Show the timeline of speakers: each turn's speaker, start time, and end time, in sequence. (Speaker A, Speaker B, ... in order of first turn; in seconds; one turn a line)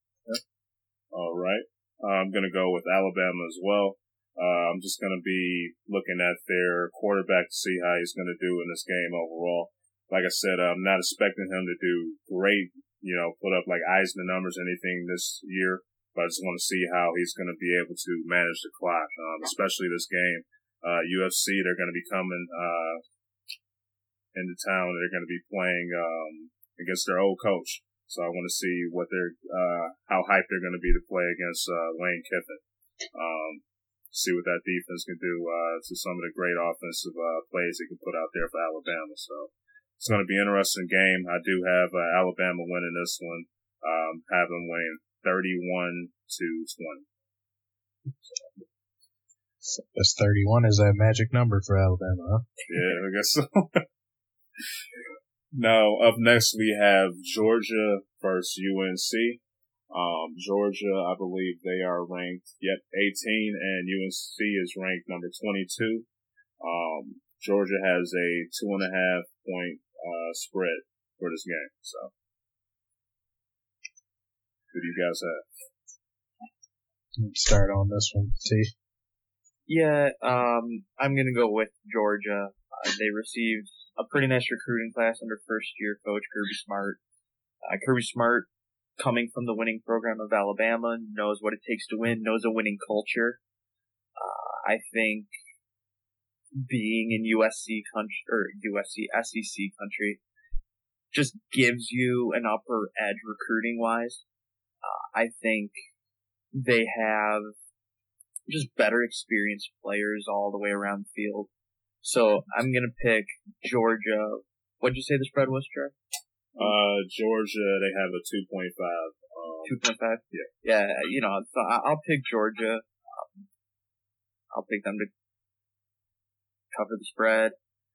Speaker A: 1.1-23.0
Speaker A: 24.3-32.6
Speaker A: 33.1-47.0
Speaker B: 49.6-52.4
Speaker A: 52.7-53.8
Speaker A: 55.5-66.0
Speaker A: 66.6-72.1
Speaker A: 74.7-75.4
Speaker B: 77.2-78.7
Speaker C: 79.7-87.0
Speaker C: 87.6-93.4
Speaker C: 94.2-95.3
Speaker C: 96.6-100.2
Speaker C: 101.1-104.2
Speaker C: 104.8-105.7
Speaker C: 106.5-107.5
Speaker C: 108.5-111.5
Speaker C: 112.0-115.9
Speaker A: 116.5-119.8
Speaker C: 119.7-123.5
Speaker C: 124.5-125.1
Speaker C: 126.7-127.5